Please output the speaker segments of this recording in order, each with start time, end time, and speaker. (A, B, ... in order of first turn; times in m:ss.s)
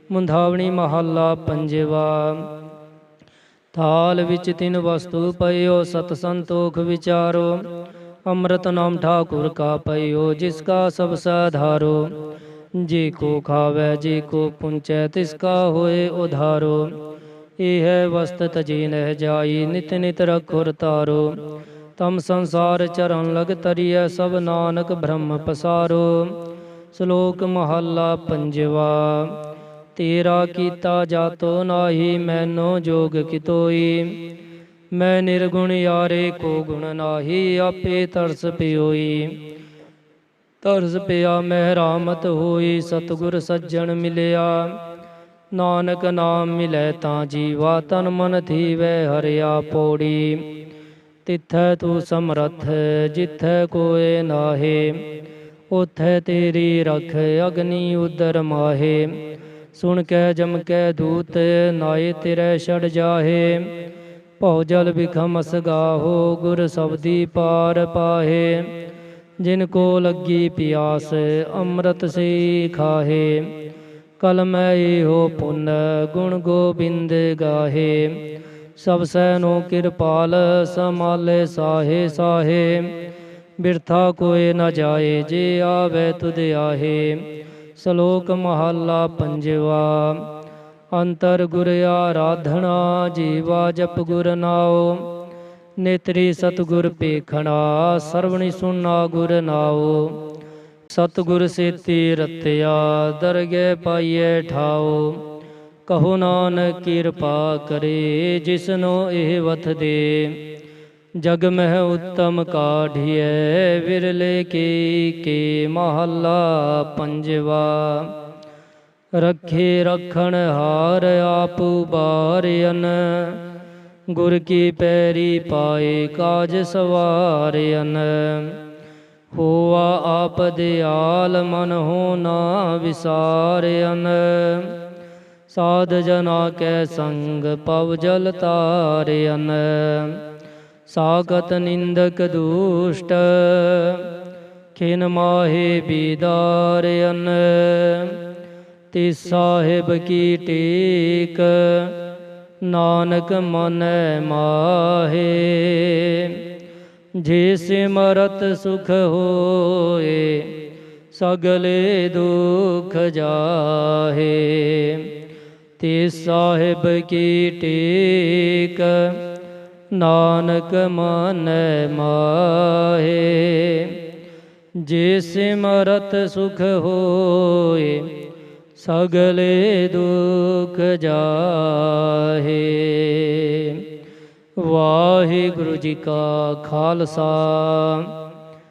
0:00.1-0:02.5 A
0:03.7-0:07.6 A
0:08.3-0:12.1 A
0:12.8-0:16.9 A
0:17.6-0:21.4 A
0:22.0-0:26.4 A
0:26.9-0:29.4 A
0:30.0-0:34.2 A
0:34.9-0:39.4 A
0:40.6-0:44.8 A
0:45.5-0:50.5 A
0:51.3-0:55.0 A
0:55.7-0:59.1 A
0:59.7-1:03.7 A
1:04.4-1:08.7 A
1:09.4-1:13.5 A
1:14.2-1:18.2 A
1:18.8-1:22.9 A
1:23.6-1:27.2 A
1:27.8-1:30.2 A
1:30.9-1:35.0 A
1:35.8-1:40.2 A
1:40.9-1:45.2 A
1:45.9-1:50.4 A
1:51.2-1:58.1 A
1:59.2-2:03.4 A
2:04.1-2:08.6 A
2:09.3-2:14.8 A
2:15.5-2:20.2 A
2:20.9-2:24.1 A
2:24.8-2:28.2 A
2:28.9-2:32.0 A
2:32.6-2:36.4 A
2:37.2-2:40.5 A
2:41.1-2:45.1 A
2:45.8-2:49.2 A
2:49.9-2:54.0 A
2:54.8-2:58.1 A
2:58.8-3:03.8 A
3:04.6-3:08.1 A